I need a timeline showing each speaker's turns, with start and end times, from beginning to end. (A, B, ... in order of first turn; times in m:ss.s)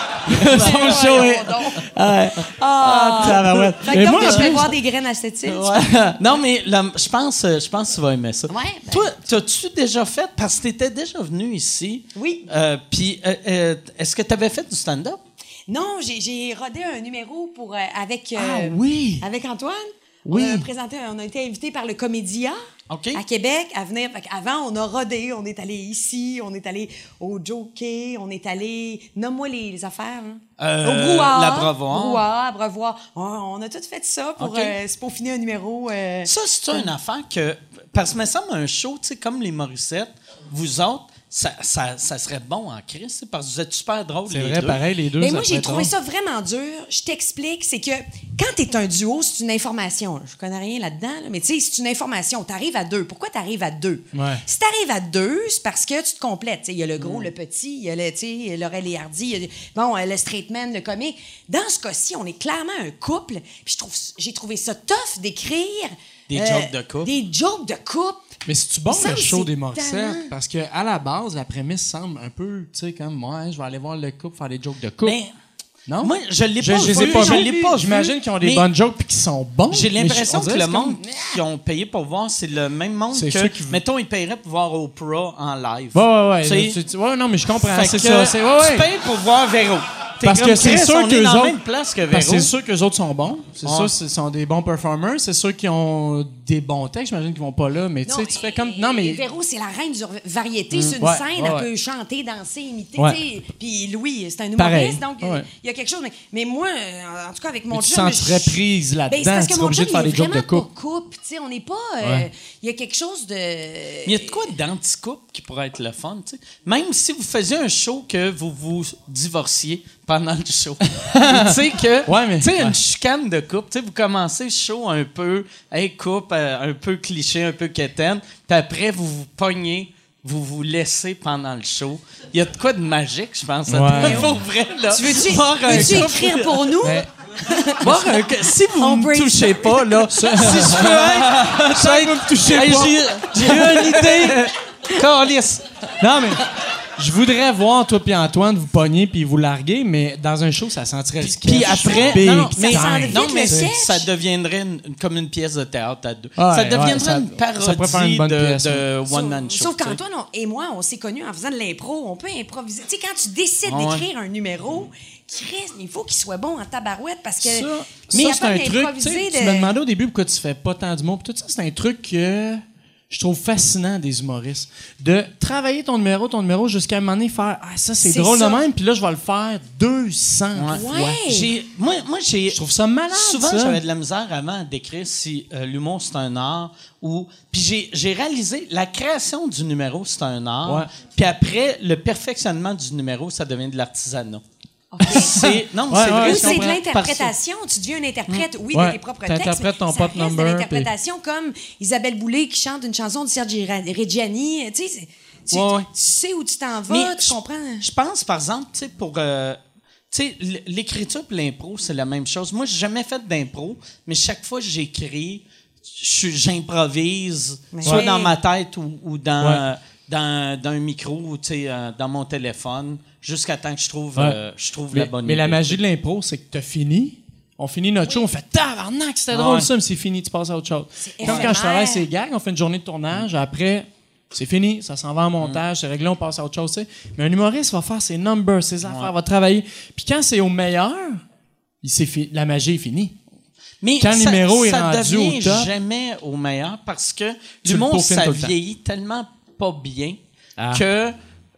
0:00.2-0:04.8 A
0:00.3-0:01.2 B
0:00.3-0:01.9 C
0:02.4-0:05.9 C
0:03.6-0:04.5 B
0:05.5-0:06.2 A
0:05.9-0:15.2 B
0:08.5-0:09.1 C
0:12.1-0:12.5 C
0:15.7-0:22.6 C
0:18.4-0:19.2 A
0:20.2-0:20.7 A
0:22.9-0:23.2 B
0:23.1-0:36.9 C
0:30.6-0:32.2 B
0:34.4-0:34.8 B
0:36.2-0:44.8 B
0:44.3-0:45.9 A
0:45.2-1:08.4 C
0:54.1-0:54.4 A
0:57.0-0:57.3 B
1:06.3-1:07.1 B
1:08.4-1:15.2 A
1:08.9-1:10.3 C
1:15.0-1:15.3 B
1:15.9-1:21.3 A
1:16.0-1:18.7 B
1:16.7-1:17.6 C
1:19.7-1:26.8 B
1:23.1-1:23.8 A
1:25.9-1:28.9 A
1:27.6-1:32.5 B
1:30.2-1:31.6 A
1:32.1-1:39.2 A
1:33.6-1:33.9 B
1:38.0-1:54.5 C
1:41.0-1:41.7 A
1:44.6-1:45.4 A
1:47.7-1:50.7 A
1:52.0-1:52.3 A
1:54.0-2:16.7 B
2:00.9-2:02.8 A
2:13.7-2:14.4 A
2:14.0-2:14.4 C
2:14.9-2:18.2 C
2:15.6-2:16.2 A
2:16.8-2:17.1 A
2:17.8-2:25.6 B
2:18.7-2:20.1 C
2:20.1-2:24.5 A
2:23.4-2:24.0 C
2:26.0-2:26.4 A
2:27.0-2:33.7 A
2:31.2-2:40.0 B
2:31.6-2:34.1 C
2:36.4-2:38.8 A
2:39.1-2:49.7 C
2:43.6-2:44.0 B
2:47.4-3:01.2 A
2:58.0-2:58.6 C
3:00.5-3:14.4 B
3:00.7-3:01.5 C
3:02.5-3:03.8 A
3:14.9-3:15.3 C
3:15.0-3:17.3 B
3:15.0-3:16.8 A
3:16.1-3:27.8 C
3:18.3-3:20.9 A
3:25.5-3:25.9 A
3:26.9-3:29.6 B
3:30.1-3:45.8 B
3:37.7-3:38.3 C
3:44.9-4:01.2 A
3:49.3-3:49.7 B
3:51.0-3:52.1 C
3:51.2-3:51.6 B
3:58.8-3:59.1 B
4:01.8-4:03.2 A
4:03.8-4:10.2 B
4:04.0-4:05.7 A
4:07.6-4:08.5 A
4:10.6-4:10.8 A
4:10.7-4:11.1 B